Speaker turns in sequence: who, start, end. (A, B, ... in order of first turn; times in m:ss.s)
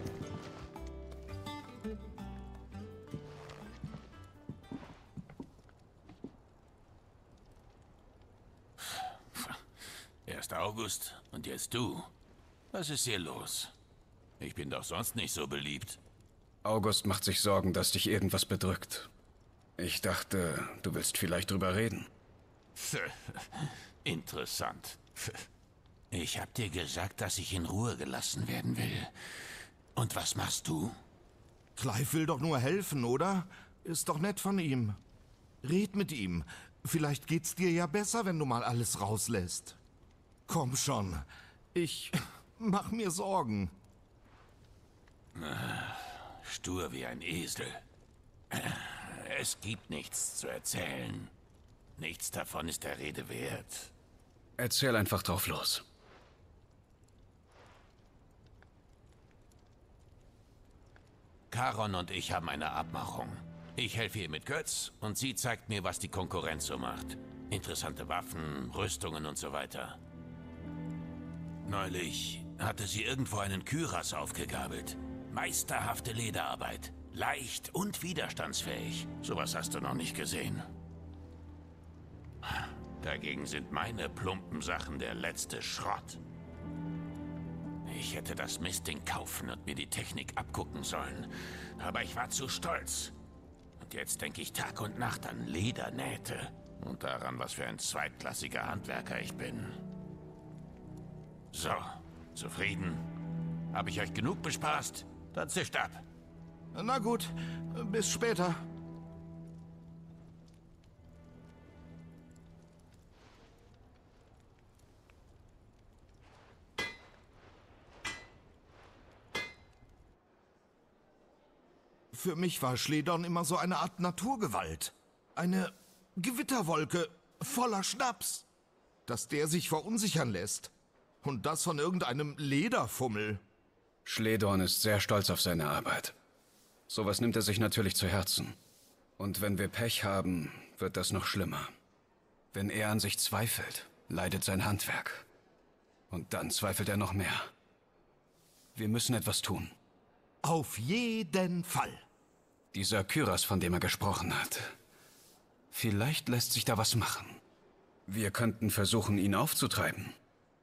0:08.8-0:09.6 A
0:10.2-0:12.1 A
0:12.7-0:13.7 A
0:14.4-0:16.0 A
0:16.6-0:19.1 B
0:19.8-0:22.1 B
0:22.8-0:23.4 A
0:24.0-0:25.1 A
0:26.1-0:29.1 A
0:29.9-0:31.0 A
0:31.8-0:35.0 C
0:35.6-0:39.8 C
0:40.5-0:43.7 C
0:45.3-0:47.8 A
0:48.5-0:51.3 A
0:52.0-0:53.9 A
0:54.6-0:55.8 B
1:01.5-1:10.0 A
1:11.7-1:20.6 A
1:22.4-1:26.2 A
1:27.8-1:33.1 A
1:33.8-1:39.8 A
1:41.5-1:43.0 A
1:43.7-1:46.0 A
1:46.7-1:48.6 C
2:02.1-2:08.4 C
2:09.1-2:10.7 C
2:11.2-2:13.4 C
2:14.0-2:16.1 B
2:16.9-2:18.6 B
2:19.2-2:21.7 B
2:22.5-2:25.2 B
2:26.1-2:27.5 B
2:28.7-2:29.7 B
2:30.4-2:32.0 C
2:32.7-2:34.7 B
2:35.7-2:37.4 B
2:38.1-2:40.2 B